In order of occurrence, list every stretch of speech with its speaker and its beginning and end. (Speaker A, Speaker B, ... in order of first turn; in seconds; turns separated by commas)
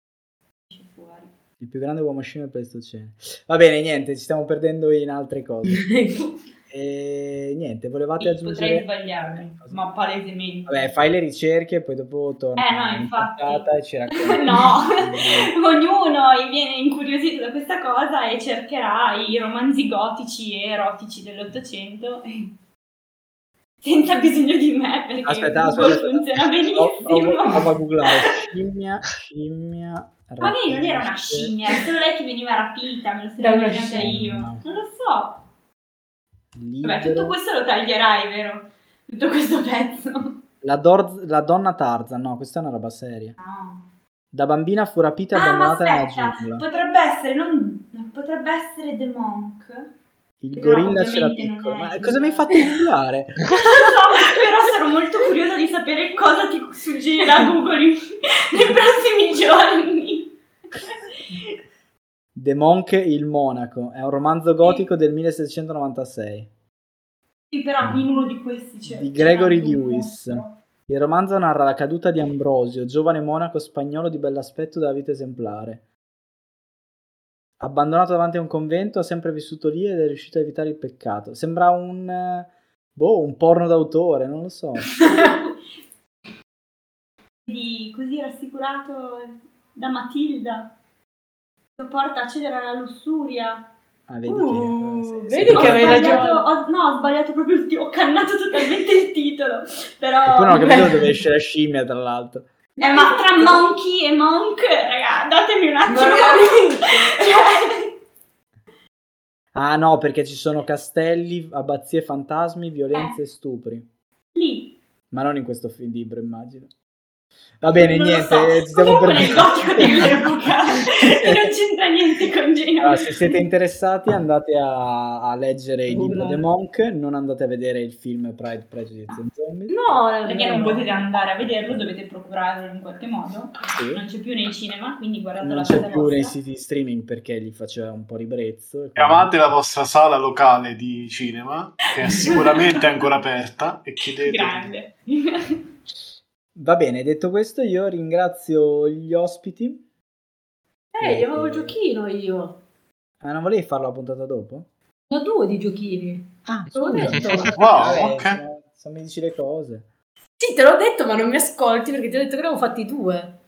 Speaker A: 0.7-1.3, Speaker B: 1.6-5.9, Speaker C: 5.7-6.3, Speaker B: 6.7-9.8, Speaker A: 8.2-10.8, Speaker B: 10.7-15.5, Speaker A: 12.6-22.5, Speaker A: 23.8-28.5, Speaker B: 25.2-31.6, Speaker A: 30.4-35.4, Speaker C: 33.4-34.1, Speaker B: 34.0-34.6, Speaker B: 36.5-37.4, Speaker A: 36.8-40.4, Speaker B: 40.6-43.4, Speaker A: 43.4-43.8, Speaker B: 44.3-46.7, Speaker A: 45.3-49.9, Speaker B: 50.4-53.8, Speaker A: 50.5-52.8, Speaker A: 53.6-60.3, Speaker B: 62.4-66.5, Speaker A: 67.5-70.5, Speaker B: 68.9-75.8, Speaker B: 77.6-85.0, Speaker A: 85.0-85.6, Speaker A: 87.5-90.7, Speaker A: 91.8-93.7, Speaker B: 94.1-96.2, Speaker C: 94.3-96.5, Speaker A: 95.5-100.9, Speaker B: 100.3-102.5, Speaker C: 100.5-101.2, Speaker C: 102.8-103.6, Speaker A: 102.8-107.9, Speaker C: 105.9-107.1, Speaker B: 109.5-113.9, Speaker A: 114.3-114.8, Speaker B: 115.1-116.7, Speaker B: 117.6-120.3, Speaker A: 117.7-123.4, Speaker B: 120.8-121.5, Speaker B: 122.8-130.0, Speaker C: 125.9-126.4, Speaker C: 129.7-130.9, Speaker A: 130.2-136.4, Speaker B: 133.7-134.0, Speaker B: 135.4-139.3, Speaker D: 139.0-144.7, Speaker A: 142.0-142.8, Speaker A: 144.1-145.6, Speaker B: 146.6-149.8, Speaker C: 150.9-152.6, Speaker B: 151.0-151.8, Speaker B: 153.2-154.7, Speaker C: 155.1-157.7, Speaker B: 156.5-159.9, Speaker D: 157.5-158.4, Speaker C: 160.4-163.4